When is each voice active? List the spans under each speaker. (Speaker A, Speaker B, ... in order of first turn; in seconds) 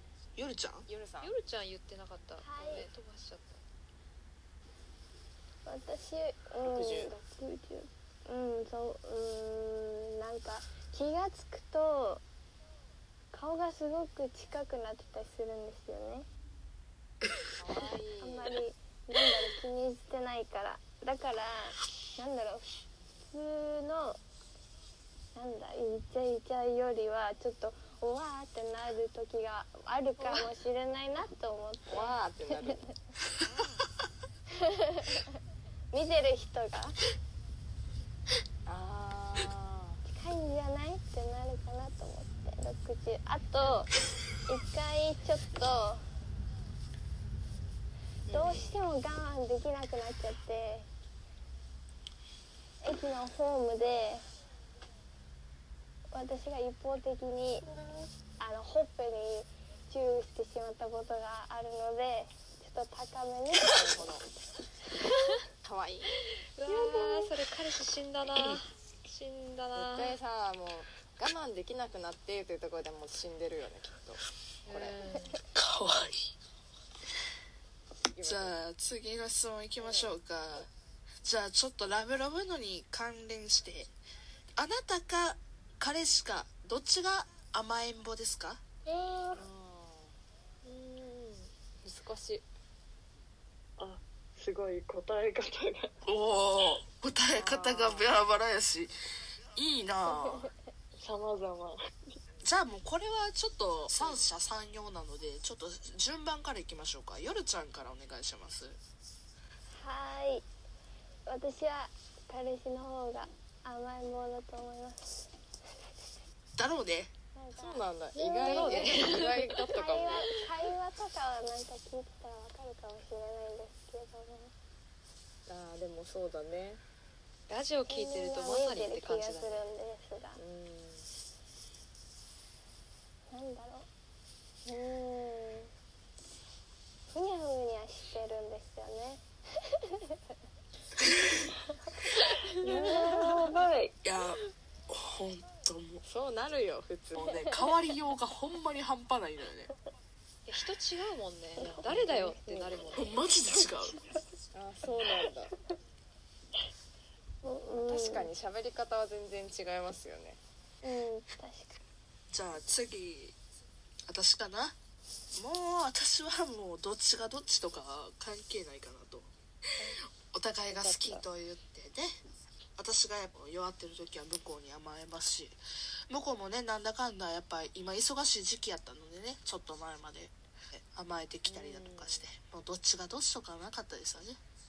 Speaker A: 0.3-0.9, 75.5-76.3, 78.2-80.7, 81.2-83.9, 84.6-88.6, 96.0-98.9, 99.5-100.5, 102.4-108.8, 116.6-117.1, 144.0-146.0, 147.1-149.7, 152.9-154.0, 162.3-163.3, 164.1-164.8, 165.3-169.3, 170.3-172.1, 172.8-184.4
Speaker B: 0.9-1.3, 6.6-7.1, 17.6-18.5, 31.9-32.8, 38.6-40.0, 48.3-48.8, 63.7-64.2, 65.6-66.1, 69.7-75.0, 78.1-78.6, 79.8-80.1, 89.3-90.1, 91.8-92.4, 97.3-98.1, 117.5-120.4, 125.5-126.8, 130.3-131.1, 146.0-147.3, 154.5-155.5, 157.7-160.4, 181.5-182.3
Speaker C: 1.2-3.6, 30.2-30.5, 33.4-33.9, 65.0-65.4, 66.1-70.2, 74.7-75.4, 90.6-91.5, 118.4-119.5, 127.5-129.7, 142.1-142.8, 150.4-153.2
Speaker D: 2.4-2.9, 5.7-12.2, 13.3-16.3, 18.2-22.7, 23.3-24.2, 25.3-32.9, 34.6-35.2, 35.9-37.0, 40.0-43.9, 44.5-46.0, 48.3-50.9, 52.8-54.2, 56.1-57.6, 58.4-64.0, 100.1-100.5, 109.7-110.4, 111.3-115.3, 117.3-117.9, 118.6-119.1, 119.7-124.5, 127.8-130.4, 133.3-133.9, 134.7-135.7, 137.1-139.2, 142.6-143.3, 147.2-147.6, 151.6-153.0, 157.4-158.3, 160.8-161.8
Speaker E: 66.7-67.3, 88.8-89.4, 93.8-95.9, 101.0-101.8, 118.1-118.7, 142.6-143.9, 170.7-171.2